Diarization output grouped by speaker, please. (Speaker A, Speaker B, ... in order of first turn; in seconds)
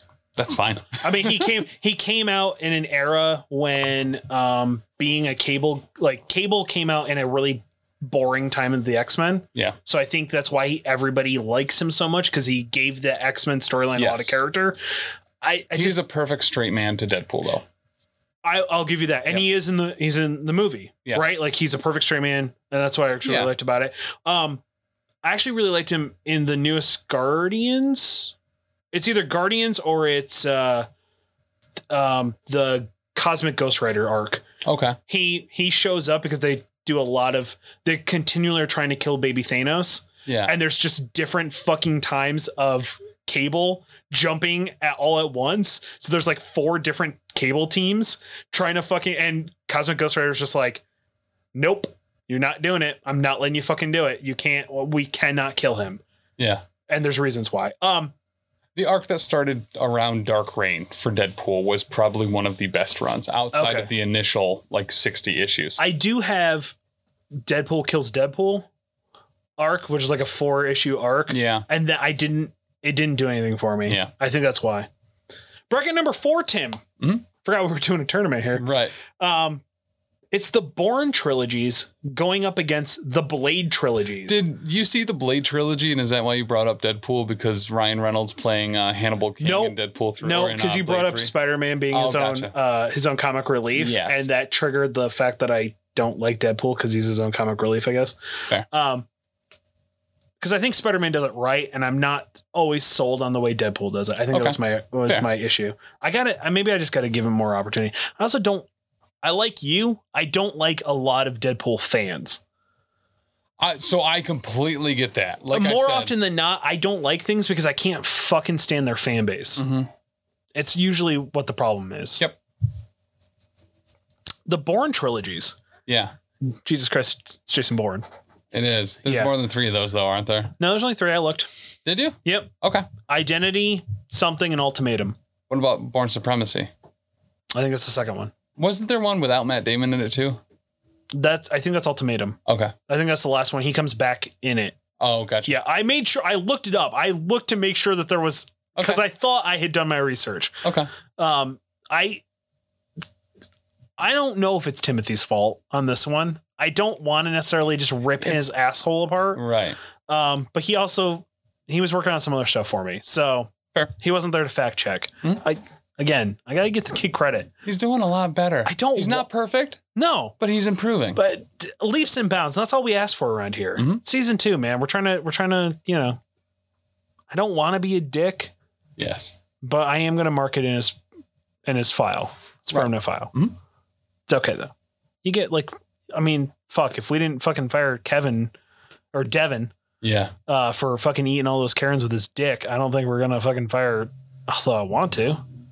Speaker A: 0.3-1.6, 13.9-14.3, 15.7-17.6, 23.2-23.5, 34.6-35.0, 40.2-40.5, 56.4-56.6, 58.7-65.8, 71.3-71.7, 77.0-77.2, 78.6-78.9, 84.2-91.3, 91.9-92.5, 93.7-94.3, 104.3-105.3, 113.6-116.1, 119.6-119.9, 125.9-126.1, 128.5-130.5, 131.8-132.9, 135.5-136.7, 138.6-140.4, 142.4-142.7, 145.0-145.5, 148.8-149.0, 150.6-150.9, 158.2-158.5, 159.3-159.8, 167.6-169.8, 170.4-171.2, 173.8-174.0, 179.0-179.4, 182.7-183.5, 190.0-190.3
Speaker B: 1.0-14.8, 15.4-16.0, 18.4-24.6, 25.2-28.3, 28.9-30.9, 31.9-34.4, 35.1-50.8, 51.5-56.0, 56.9-58.1, 63.5-63.9, 65.8-66.7, 67.4-68.7, 69.6-74.9, 75.7-76.8, 77.4-79.6, 80.3-84.4, 89.4-98.2, 98.7-99.0, 100.4-108.7, 109.2-112.4, 115.5-119.6, 120.5-122.2, 124.5-125.6, 126.4-128.0, 129.0-129.3, 130.6-131.5, 132.2-132.5, 133.1-135.2, 137.5-138.3, 141.1-144.8, 145.4-150.6, 151.2-152.2, 154.0-159.4, 160.1-167.5, 168.7-169.3, 169.9-170.3, 171.1-176.2, 177.3-178.5, 179.6-181.0, 181.7-183.3, 184.3-184.7, 185.2-188.5, 189.1-189.7, 190.5-195.4